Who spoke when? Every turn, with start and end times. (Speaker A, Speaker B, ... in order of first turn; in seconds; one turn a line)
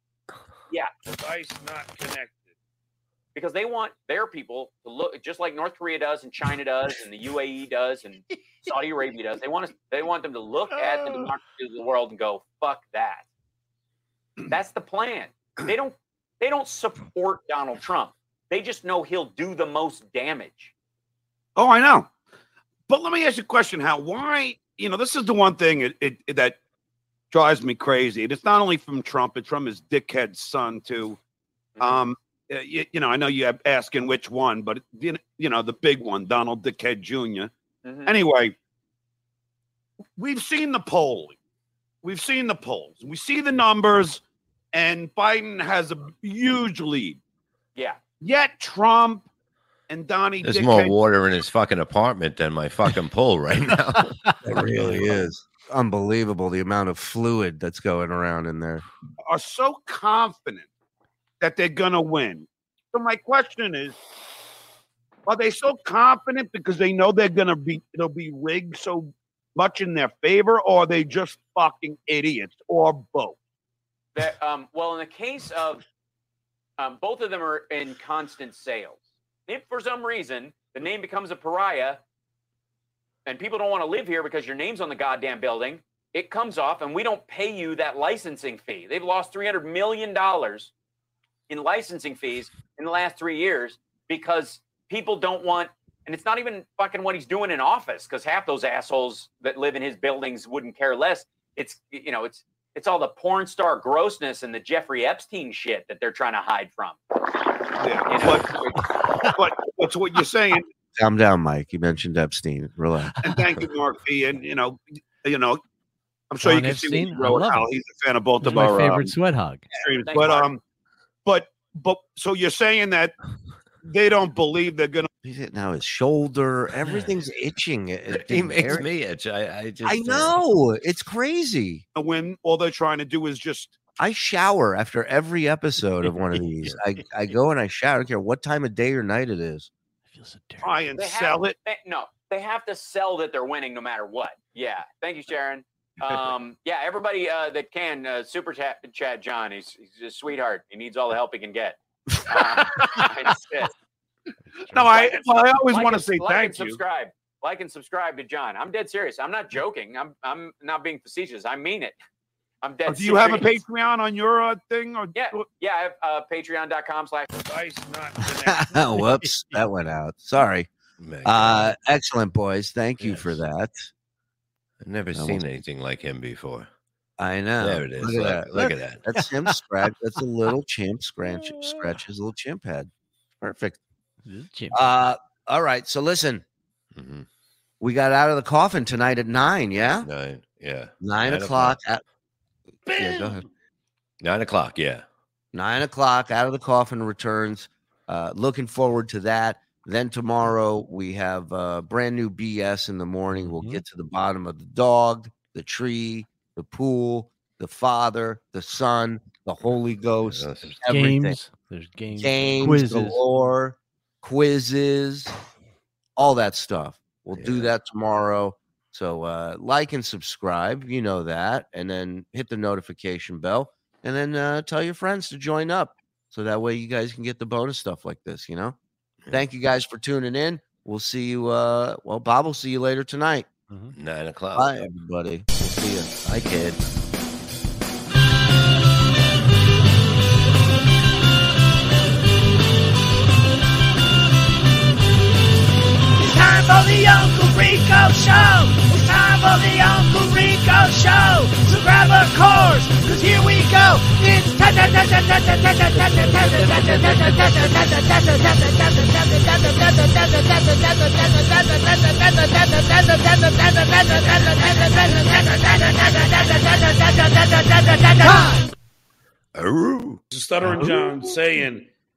Speaker A: 1.2-2.5
Speaker B: 3.3-13.2
Speaker B: 14.5-20.7
Speaker A: 21.6-22.1
Speaker A: 22.9-26.6
Speaker A: 27.3-31.2
Speaker B: 31.8-32.0
Speaker A: 31.8-37.5
Speaker B: 37.8-38.1
Speaker A: 38.0-38.5
Speaker A: 40.2-41.4
Speaker A: 42.0-44.2
Speaker A: 44.7-47.2
Speaker A: 48.2-49.2
Speaker A: 49.9-50.9
Speaker C: 50.4-54.1
Speaker D: 54.1-54.4
Speaker E: 54.4-58.8
Speaker C: 54.8-55.1
Speaker A: 59.2-60.7
Speaker A: 61.4-64.0
Speaker A: 65.2-73.3
Speaker B: 74.1-75.8
Speaker B: 76.8-82.0
Speaker B: 83.2-90.7
Speaker B: 91.5-107.0
Speaker A: 107.8-110.7
Speaker B: 108.0-108.5
Speaker E: 111.0-113.2
Speaker A: 113.2-115.6
Speaker A: 116.3-119.1
Speaker D: 116.4-117.7
Speaker D: 118.4-119.7
Speaker A: 119.7-120.6
Speaker B: 120.0-120.5
Speaker A: 121.2-123.2
Speaker A: 123.8-125.1
Speaker E: 125.2-128.9
Speaker D: 126.9-127.1
Speaker C: 128.1-130.4
Speaker E: 129.8-131.8
Speaker A: 131.9-133.8
Speaker E: 134.0-139.7
Speaker D: 140.1-140.8
Speaker A: 140.6-141.6
Speaker B: 141.0-153.7
Speaker D: 152.7-153.1
Speaker D: 154.6-154.9
Speaker A: 154.7-156.8
Speaker B: 155.7-161.9
Speaker B: 162.6-163.5
Speaker A: 162.9-165.4
Speaker B: 165.1-167.3
Speaker A: 167.4-168.7
Speaker E: 168.4-170.7
Speaker D: 169.0-169.2
Speaker C: 171.0-171.7
Speaker E: 171.2-173.9
Speaker D: 173.0-173.4
Speaker C: 174.8-176.7
Speaker E: 175.1-175.4
Speaker E: 177.2-182.9
Speaker C: 177.6-179.0
Speaker D: 179.1-179.6
Speaker D: 181.5-181.9
Speaker E: 183.4-183.8
Speaker D: 184.2-184.8
Speaker E: 184.7-186.4
Speaker C: 186.9-187.2
Speaker E: 187.8-190.1
Speaker C: 190.0-191.8
Speaker E: 191.0-192.0
Speaker E: 192.9-193.4
Speaker C: 194.2-195.0
Speaker E: 195.5-211.4
Speaker D: 203.3-203.8
Speaker C: 210.2-210.8
Speaker D: 210.8-213.2
Speaker E: 212.2-215.3
Speaker E: 216.2-228.8
Speaker C: 217.3-217.7
Speaker E: 229.3-233.5
Speaker D: 233.7-233.9
Speaker C: 233.9-234.8
Speaker E: 234.5-236.2
Speaker C: 236.2-236.8
Speaker F: 246.2-268.7
Speaker C: 269.5-270.2
Speaker A: 270.3-271.9
Speaker D: 270.6-271.3